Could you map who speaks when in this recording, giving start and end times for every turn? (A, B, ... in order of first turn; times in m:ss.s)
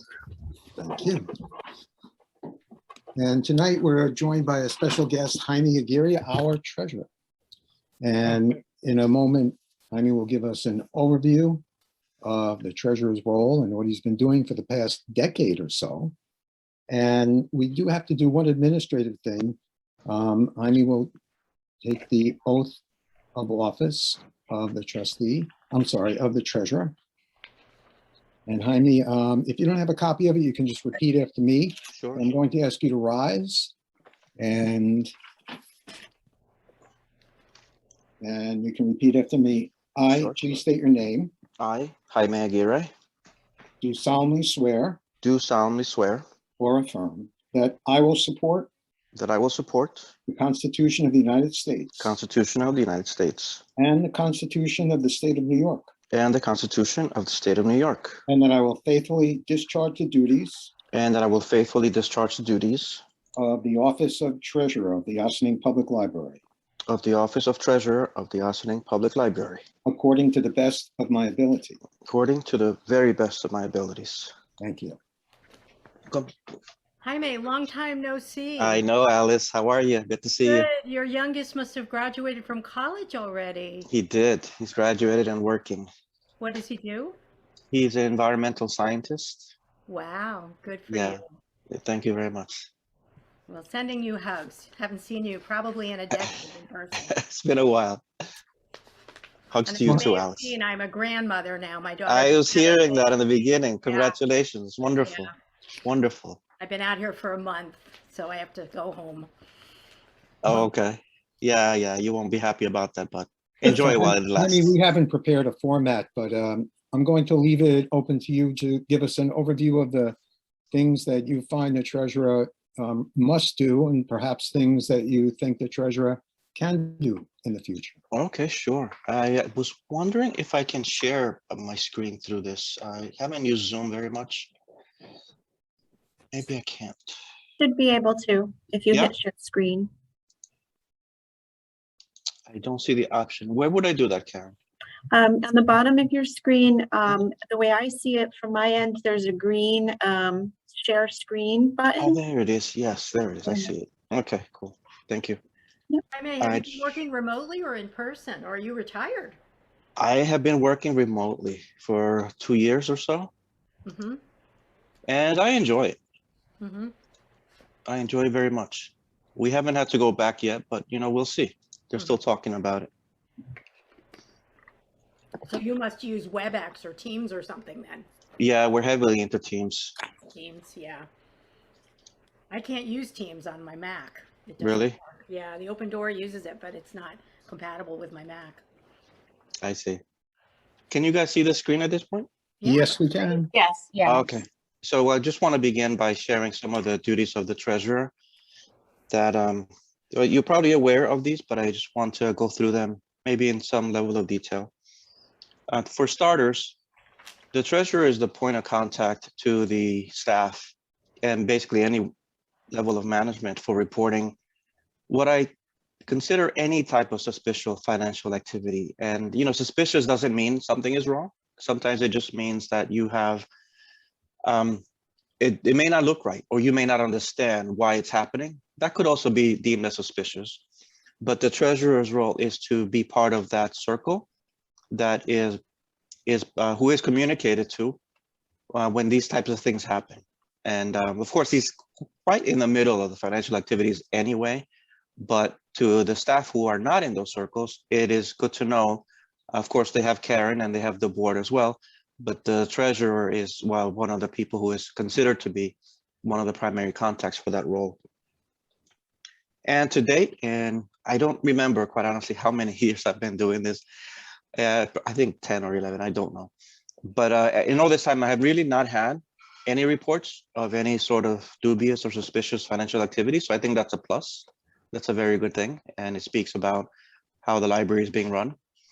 0:00.8-0:01.3 A
0:03.2-0:07.1 A
0:08.0-0:11.6 A
0:12.2-0:16.1 A
0:16.9-0:21.1 A
0:21.8-0:22.8 A
0:23.4-0:26.9 A
0:28.5-0:33.7 A
0:31.9-0:32.3 B
0:34.4-0:35.1 A
0:38.2-0:41.3 A
0:40.1-0:40.6 B
0:41.6-0:42.9 B
0:43.8-0:45.0 A
0:45.2-0:46.2 B
0:46.6-0:48.7 A
0:49.1-0:50.1 B
0:50.3-0:52.2 A
0:52.0-0:53.6 B
0:53.8-0:55.9 A
0:56.1-0:58.2 B
0:58.3-1:00.7 A
1:00.9-1:03.0 B
1:03.4-1:06.4 A
1:06.9-1:09.6 B
1:09.8-1:11.8 A
1:12.0-1:14.3 B
1:14.6-1:15.0 A
1:17.0-1:18.8 C
1:18.6-1:20.7 B
1:20.4-1:23.9 C
1:23.9-1:25.9 B
1:26.4-1:27.2 C
1:27.7-1:29.5 B
1:29.9-1:31.3 C
1:30.9-1:32.7 B
1:33.5-1:37.1 C
1:36.1-1:36.4 B
1:37.0-1:38.0 B
1:39.5-1:40.5 B
1:39.6-1:43.1 C
1:42.0-1:45.3 B
1:43.8-1:44.2 C
1:44.9-1:45.3 C
1:45.8-1:46.4 B
1:46.6-1:49.3 C
1:50.4-1:54.7 B
1:53.6-2:00.2 A
2:00.7-2:08.0 A
2:08.1-2:14.5 B
2:16.3-2:17.2 B
2:17.6-2:19.9 D
2:22.5-2:24.5 B
2:25.1-2:32.2 D
2:32.0-2:35.4 B
2:33.4-2:33.7 D
2:36.1-2:39.4 C
2:36.4-2:36.9 B
2:40.0-2:43.3 B
2:43.8-2:44.2 C
2:45.1-2:46.0 B
2:46.6-2:46.9 C
2:47.9-2:52.9 B
2:55.4-2:58.0 C
2:58.4-2:59.9 B
3:00.2-3:01.1 C
3:02.5-3:08.6 C
3:04.6-3:05.0 B
3:09.6-3:10.0 B
3:10.9-3:12.3 B
3:12.6-3:13.4 C
3:12.6-3:13.5 A
3:13.5-3:14.3 D
3:14.0-3:18.1 B
3:19.1-3:24.7 B
3:25.7-3:26.8 B
3:27.5-3:32.1 B
3:32.7-3:34.4 B
3:35.1-3:35.5 B
3:36.1-3:43.5 B
3:44.4-3:44.8 B
3:45.4-3:50.6 B
3:51.2-3:54.3 B
3:54.9-3:55.6 B
3:56.2-3:58.0 B
3:58.7-4:04.6 B
4:05.2-4:18.0 B
4:19.6-4:23.8 B
4:24.6-4:26.5 B
4:27.0-4:36.9 B
4:37.4-4:38.6 B